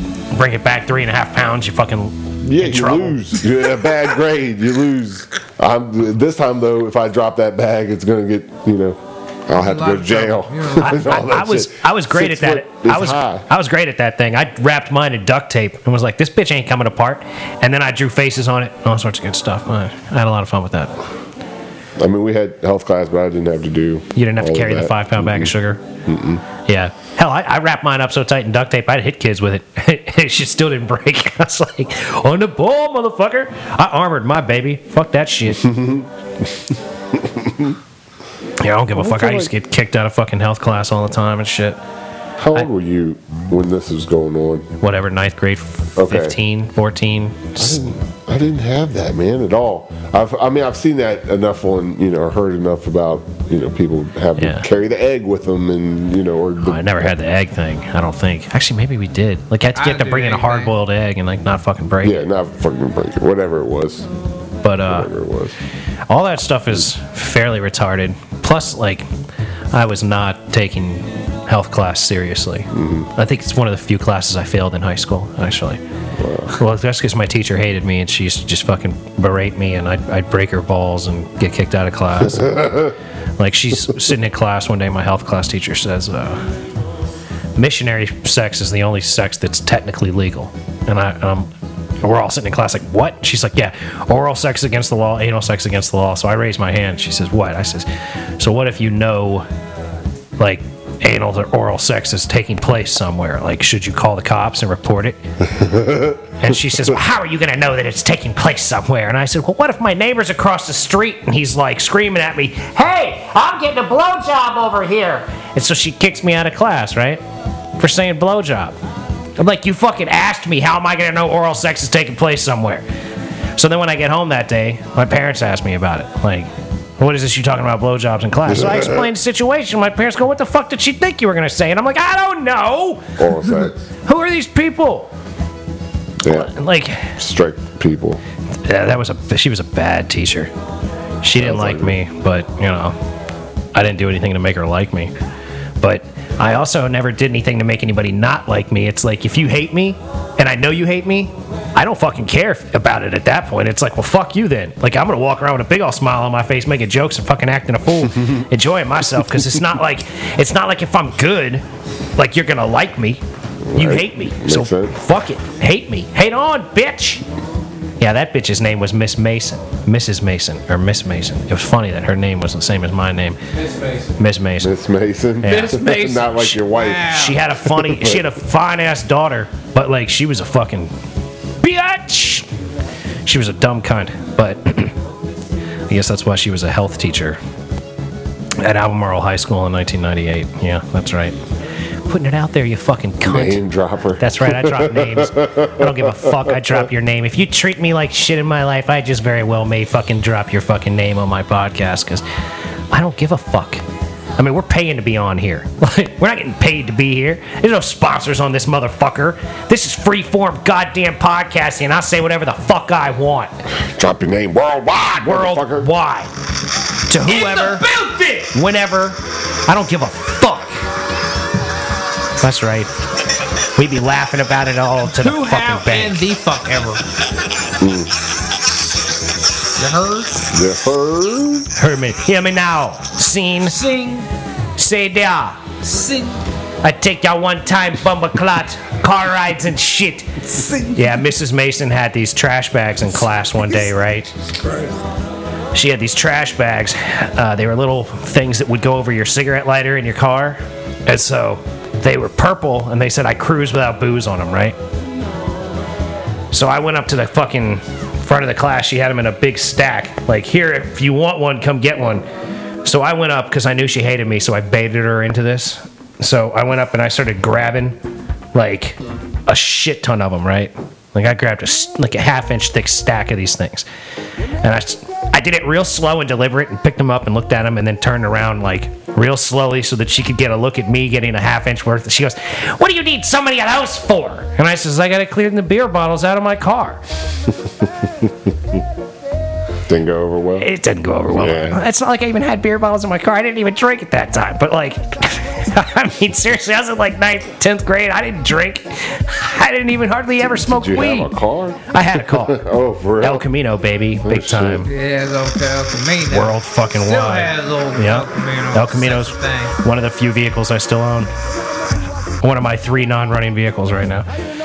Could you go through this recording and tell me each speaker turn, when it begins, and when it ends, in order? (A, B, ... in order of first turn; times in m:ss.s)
0:00.3-0:03.3 A
0:02.4-0:13.4 B
0:09.6-0:11.0 C
0:10.8-0:21.0 A
0:22.0-0:25.5 B
0:24.1-0:25.8 A
0:26.0-0:26.4 B
0:26.6-0:35.8 A
0:35.6-0:37.8 B
0:38.6-0:41.8 A
0:38.9-0:39.5 B
0:42.4-0:44.7 B
0:44.8-0:47.9 A
0:46.0-0:46.4 B
0:47.6-0:57.0 B
0:54.4-0:54.6 A
0:56.6-1:02.2 A
0:59.7-1:00.7 C
1:02.0-1:04.1 B
1:04.6-1:05.1 A
1:04.8-1:05.5 B
1:06.1-1:09.1 A
1:09.7-1:15.8 A
1:12.7-1:13.1 B
1:16.2-1:16.5 B
1:16.5-1:26.4 A
1:27.6-1:31.5 A
1:32.0-1:37.9 A
1:38.4-1:39.5 A
1:40.4-1:45.2 A
1:45.7-1:46.1 B
1:46.4-1:57.2 A
1:57.8-1:58.8 A
1:59.4-2:02.8 A
2:03.6-2:15.1 A
2:08.4-2:09.1 B
2:13.2-2:13.8 B
2:16.2-2:16.5 B
2:16.3-2:17.2 A
2:17.2-2:18.2 B
2:18.6-2:20.5 A
2:21.2-2:23.0 A
2:21.3-2:22.0 B
2:23.7-2:25.1 A
2:25.8-2:41.6 A
2:42.2-2:43.2 A
2:43.7-2:45.0 B
2:43.7-2:47.2 A
2:48.0-2:53.4 A
2:53.5-2:54.2 C
2:54.2-2:54.7 A
2:54.6-2:58.3 B
2:55.4-3:00.9 A
2:56.6-2:57.4 C
3:01.6-3:02.5 A
3:03.2-3:04.9 A
3:05.9-3:07.4 A
3:08.6-3:11.4 A
3:12.1-3:13.6 A
3:13.2-3:16.7 B
3:14.2-3:22.2 A
3:22.9-3:23.8 A
3:24.4-3:33.5 A
3:33.8-3:35.9 B
3:35.2-3:36.3 A
3:37.1-3:37.8 A
3:37.2-3:38.5 C
3:38.5-3:40.7 A
3:42.4-3:42.9 A
3:43.8-3:46.2 A
3:45.2-3:47.0 C
3:47.8-3:48.1 B
3:49.8-3:50.4 C
3:50.5-3:51.7 B
3:51.8-3:53.8 A
3:53.6-3:54.3 C
3:54.8-3:55.6 A
3:55.8-3:56.4 C
3:56.8-4:04.3 A
4:00.5-4:01.0 C
4:04.5-4:04.9 C
4:05.7-4:14.8 A
4:16.5-4:22.2 A
4:22.8-4:28.0 A
4:28.5-4:33.8 A
4:34.6-4:47.0 A
4:49.9-4:50.7 B
4:50.6-5:01.3 A
4:51.3-4:51.8 B
5:00.4-5:03.5 B
5:01.9-5:02.6 A
5:03.2-5:04.9 A
5:04.2-5:04.9 B
5:04.8-5:09.8 C
5:06.3-5:11.3 A
5:12.4-5:14.3 A